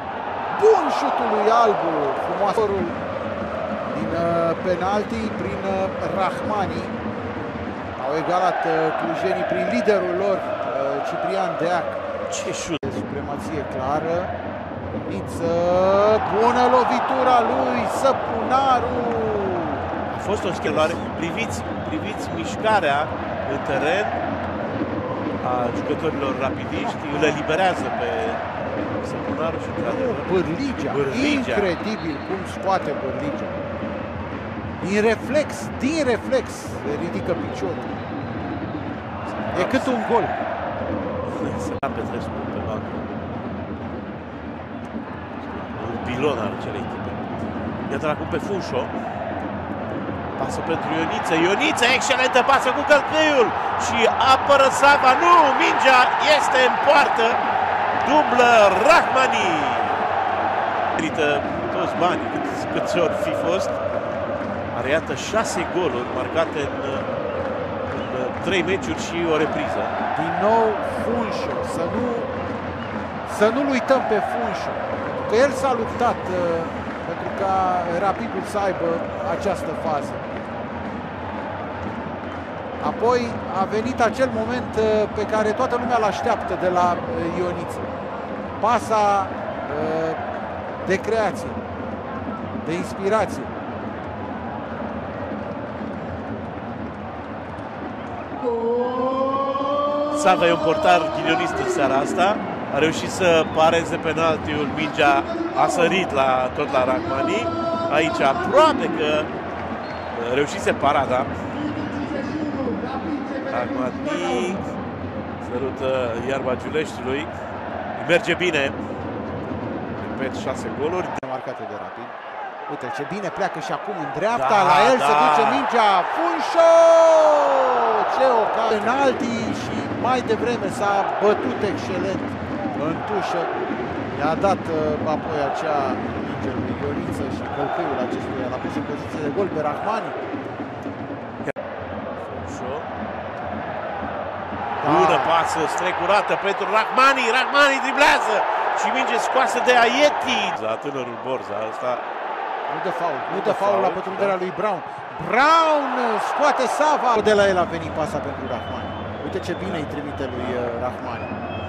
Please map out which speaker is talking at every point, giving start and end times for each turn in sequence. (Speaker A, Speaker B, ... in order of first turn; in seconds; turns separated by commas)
Speaker A: 0.5-3.0, Speaker A: 3.9-7.0, Speaker A: 8.0-12.0, Speaker B: 12.3-12.8, Speaker A: 12.8-14.3, Speaker A: 15.1-19.9, Speaker B: 20.1-24.2, Speaker A: 20.5-21.0, Speaker B: 25.4-28.4, Speaker A: 26.7-27.4, Speaker B: 28.9-31.7, Speaker A: 29.8-33.6, Speaker A: 34.8-37.9, Speaker B: 39.3-40.0, Speaker A: 39.5-40.4, Speaker B: 41.2-43.2, Speaker B: 45.4-47.2, Speaker B: 47.9-48.9, Speaker B: 50.3-57.4, Speaker B: 58.0-60.0, Speaker B: 61.0-63.8, Speaker B: 64.7-67.1, Speaker B: 67.8-69.9, Speaker A: 70.1-72.3, Speaker A: 73.2-80.2, Speaker A: 82.8-87.8, Speaker A: 88.6-90.2, Speaker A: 90.8-91.6, Speaker A: 92.6-93.5, Speaker B: 100.1-109.3, Speaker B: 110.1-111.4, Speaker A: 112.1-113.3, Speaker B: 113.5-114.7, Speaker B: 115.4-117.3, Speaker B: 118.0-118.8, Speaker B: 120.0-121.2, Speaker A: 121.2-122.1, Speaker A: 122.7-133.5, Speaker B: 124.3-125.7, Speaker A: 134.1-140.2, Speaker B: 142.2-142.9, Speaker A: 144.8-145.3, Speaker B: 144.8-152.0, Speaker A: 152.7-161.3, Speaker B: 153.2-154.4, Speaker B: 159.6-159.9